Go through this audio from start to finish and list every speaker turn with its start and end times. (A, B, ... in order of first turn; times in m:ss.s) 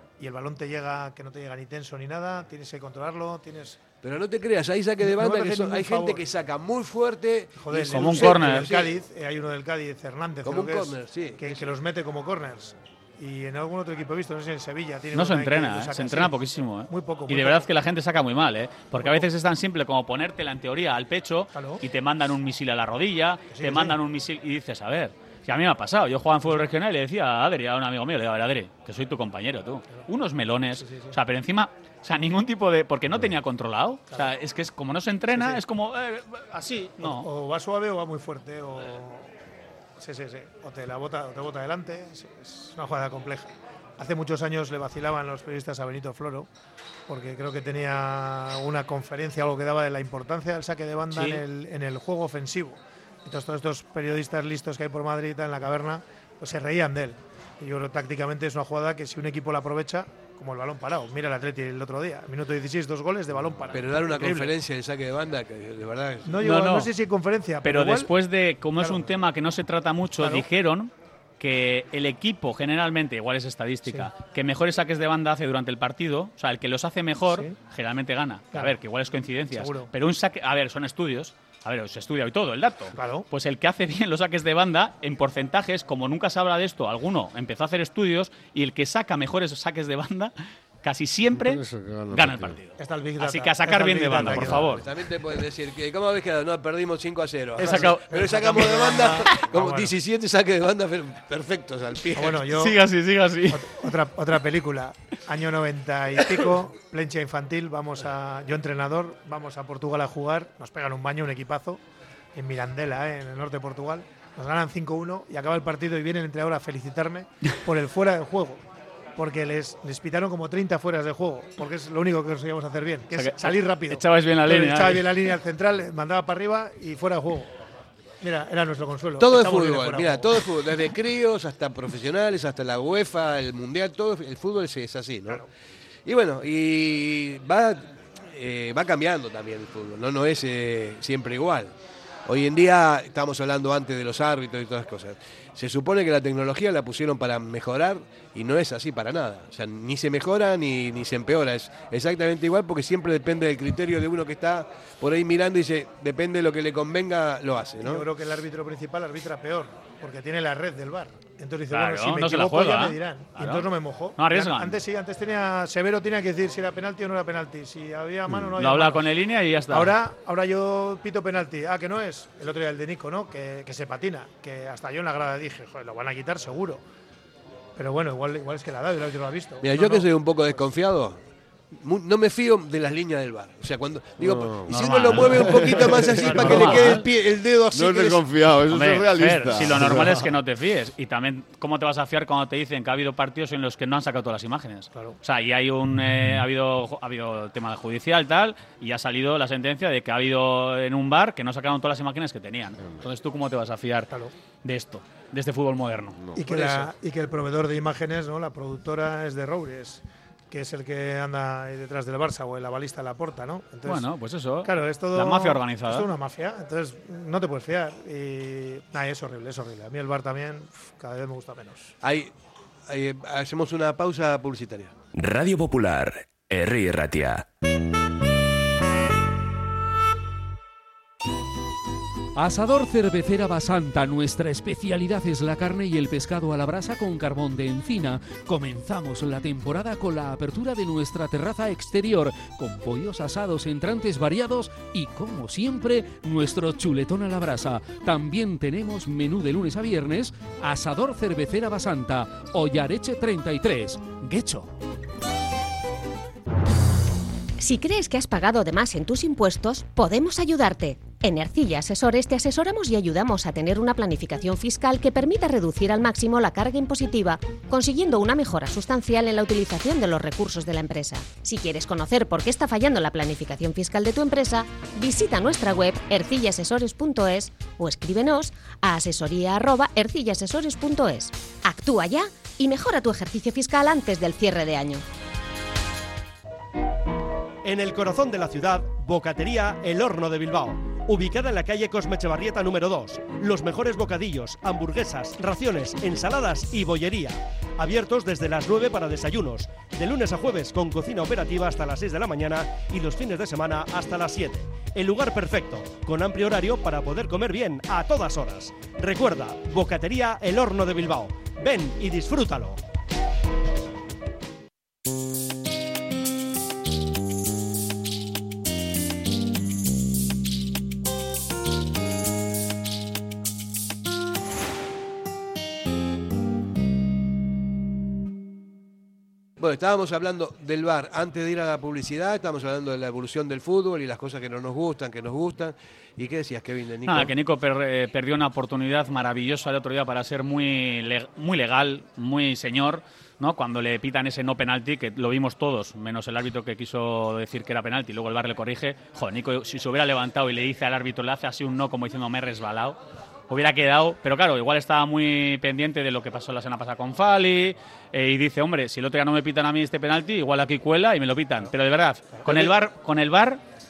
0:00.2-0:03.8 A
0:04.0-0:08.9 B
0:05.0-0:06.2 A
0:07.6-0:16.4 A
0:07.9-0:08.7 C
0:10.4-0:11.7 B
0:15.1-0:37.3 C
0:16.9-0:17.7 A
0:19.0-0:19.3 A
0:21.5-0:21.8 A
0:23.5-0:24.0 A
0:30.8-0:31.2 A
0:35.3-0:35.6 A
0:37.0-0:39.3 A
0:40.0-0:46.5 A
0:47.1-1:04.5 A
0:51.1-0:51.4 C
1:03.3-1:03.7 D
1:03.7-1:06.4 B
1:06.3-1:08.1 A
1:06.4-1:06.9 C
1:07.6-1:34.8 C
1:08.8-1:09.1 A
1:10.2-1:10.5 A
1:17.2-1:17.6 A
1:19.5-1:19.9 A
1:23.0-1:23.3 A
1:31.3-1:32.6 D
1:32.8-1:34.8 A
1:34.3-1:42.4 B
1:37.6-1:38.1 C
1:37.6-1:39.9 A
1:42.1-1:42.8 A
1:42.2-1:43.7 C
1:43.5-1:51.8 A
1:52.4-1:58.6 A
1:59.2-2:07.5 A
2:03.1-2:05.1 C
2:08.2-2:10.4 A
2:09.2-2:15.4 B
2:16.1-2:21.7 B
2:22.3-2:38.1 B
2:37.8-2:49.1 A
2:41.7-2:44.8 C
2:48.6-2:50.0 C
2:49.7-2:56.8 A
2:57.8-3:00.1 A
2:59.6-3:01.2 B
3:01.8-3:08.2 B
3:04.2-3:04.7 D
3:04.7-3:07.0 C
3:05.3-3:06.8 D
3:06.2-3:06.9 A
3:07.7-3:10.3 D
3:08.7-3:24.1 C
3:24.6-3:26.2 C
3:26.2-3:26.5 D
3:26.4-3:34.1 A
3:26.5-3:26.9 B
3:33.8-3:36.1 C
3:34.6-3:41.9 A
3:42.0-3:42.3 B
3:42.9-3:44.9 B
3:45.2-3:47.4 E
3:52.4-4:14.7 F
4:17.6-4:45.0 G
4:47.6-5:12.8 H
5:29.6-5:37.3 B
5:37.1-5:53.0 C
5:53.5-6:03.6 C
6:02.4-6:02.7 A